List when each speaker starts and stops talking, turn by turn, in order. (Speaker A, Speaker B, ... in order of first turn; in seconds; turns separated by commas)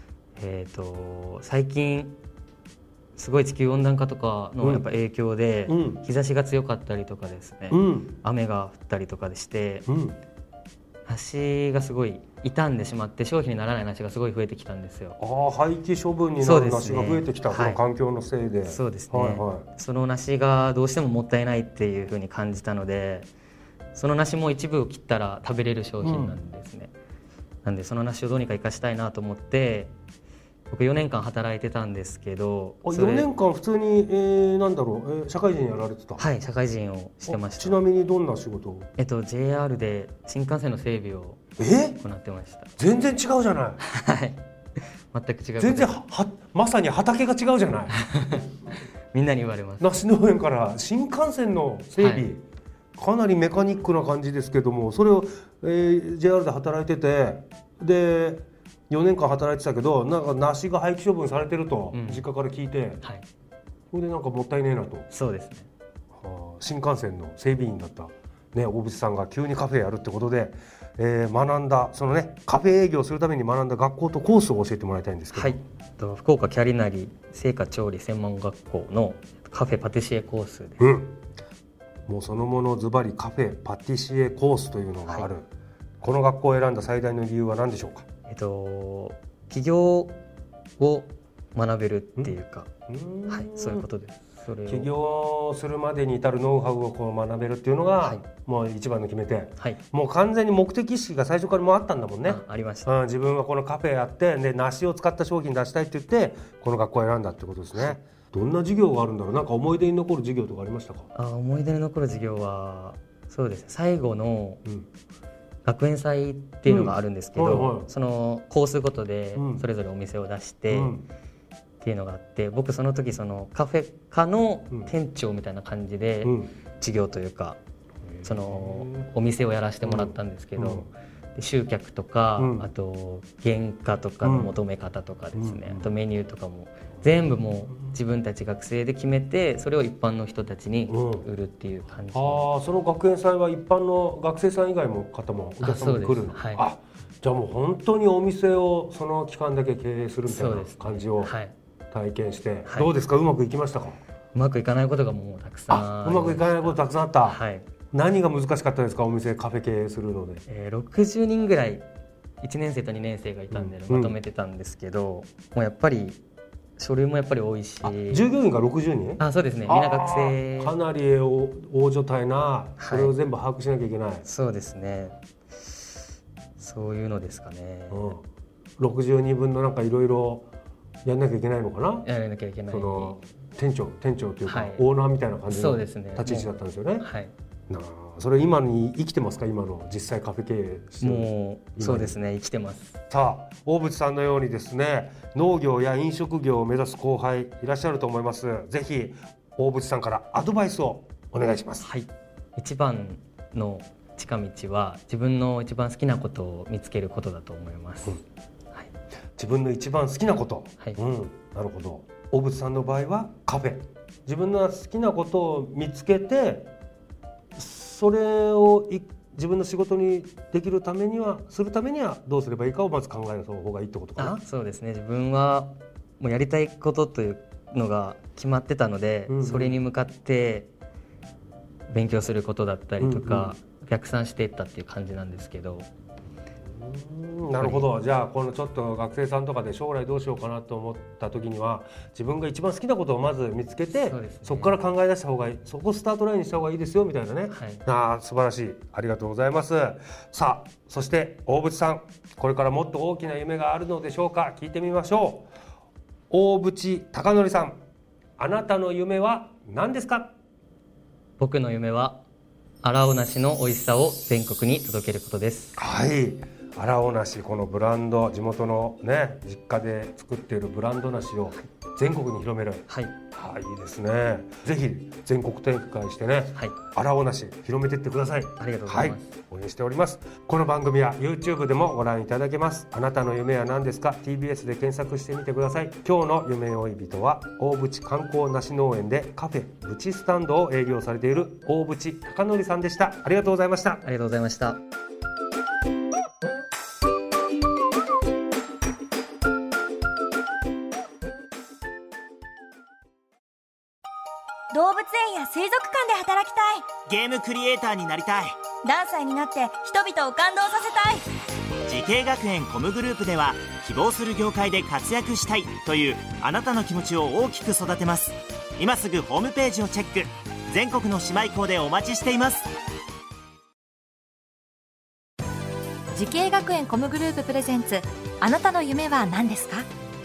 Speaker A: 0.3-2.2, Speaker A: 3.1-9.8, Speaker B: 4.6-4.8, Speaker B: 5.7-6.0, Speaker B: 7.7-8.2, Speaker B: 9.9-10.2, Speaker A: 11.1-15.2, Speaker B: 15.2-19.7, Speaker A: 16.4-17.8, Speaker A: 18.6-23.3, Speaker A: 23.9-26.9, Speaker B: 26.0-26.4, Speaker A: 27.6-29.9, Speaker A: 30.7-33.3, Speaker B: 32.8-36.2, Speaker A: 36.2-37.8, Speaker B: 37.2-38.9, Speaker A: 39.0-41.4, Speaker B: 41.6-42.0, Speaker A: 42.0-42.7, Speaker B: 42.8-43.8, Speaker A: 43.8-44.4, Speaker A: 45.1-46.0, Speaker B: 45.6-48.0, Speaker A: 47.9-48.5, Speaker A: 49.1-49.9, Speaker B: 49.8-52.4, Speaker A: 52.0-52.3, Speaker B: 53.0-63.0, Speaker A: 61.9-62.3, Speaker B: 63.9-65.1, Speaker A: 65.1-65.7, Speaker B: 66.2-75.6, Speaker A: 75.3-80.8, Speaker B: 80.8-81.2, Speaker B: 82.1-85.5, Speaker B: 86.0-88.0, Speaker A: 88.2-90.2, Speaker A: 90.8-92.7, Speaker B: 92.2-93.9, Speaker A: 93.3-94.9, Speaker B: 94.7-111.1, Speaker A: 102.2-102.9, Speaker A: 107.7-108.0, Speaker A: 111.1-114.6, Speaker A: 115.6-120.9, Speaker B: 116.7-117.9, Speaker B: 119.3-119.7, Speaker B: 120.7-121.1, Speaker A: 121.8-127.6, Speaker B: 126.2-126.5, Speaker B: 128.2-129.1, Speaker A: 128.2-142.5, Speaker B: 129.8-130.9, Speaker B: 132.4-132.7, Speaker B: 134.2-134.5, Speaker B: 135.3-135.9, Speaker B: 140.9-141.3, Speaker B: 142.1-151.3, Speaker A: 145.6-146.6, Speaker A: 150.3-151.5, Speaker B: 151.9-154.0, Speaker A: 154.3-157.7, Speaker B: 155.7-157.4, Speaker B: 157.9-160.4, Speaker A: 160.5-161.8, Speaker A: 162.4-166.2, Speaker B: 163.5-164.2, Speaker A: 166.8-168.2, Speaker B: 167.8-174.2, Speaker A: 169.2-170.7, Speaker A: 172.8-173.1, Speaker A: 174.2-175.2, Speaker A: 176.6-178.2, Speaker B: 177.9-178.2, Speaker B: 178.8-180.5, Speaker B: 181.0-182.1, Speaker A: 182.0-183.2, Speaker B: 182.7-187.1, Speaker A: 184.4-184.8, Speaker A: 185.5-187.3, Speaker B: 187.7-192.2, Speaker A: 191.0-193.0, Speaker B: 193.1-201.9, Speaker A: 201.8-208.2, Speaker B: 209.4-216.7, Speaker B: 217.6-224.4, Speaker A: 224.2-230.7, Speaker B: 229.3-229.8, Speaker A: 231.9-235.9, Speaker B: 233.0-233.5, Speaker B: 236.8-255.5, Speaker A: 237.6-237.9, Speaker A: 243.9-244.8, Speaker A: 247.5-247.8, Speaker B: 256.3-257.8, Speaker B: 258.4-260.3, Speaker A: 261.4-262.2, Speaker A: 262.8-265.8, Speaker B: 265.8-294.0, Speaker A: 272.9-273.1, Speaker A: 278.6-279.3, Speaker A: 294.0-294.8, Speaker C: 304.7-306.9, Speaker D: 307.1-308.6, Speaker C: 308.8-311.2, Speaker D: 311.8-322.7, Speaker E: 326.1-329.9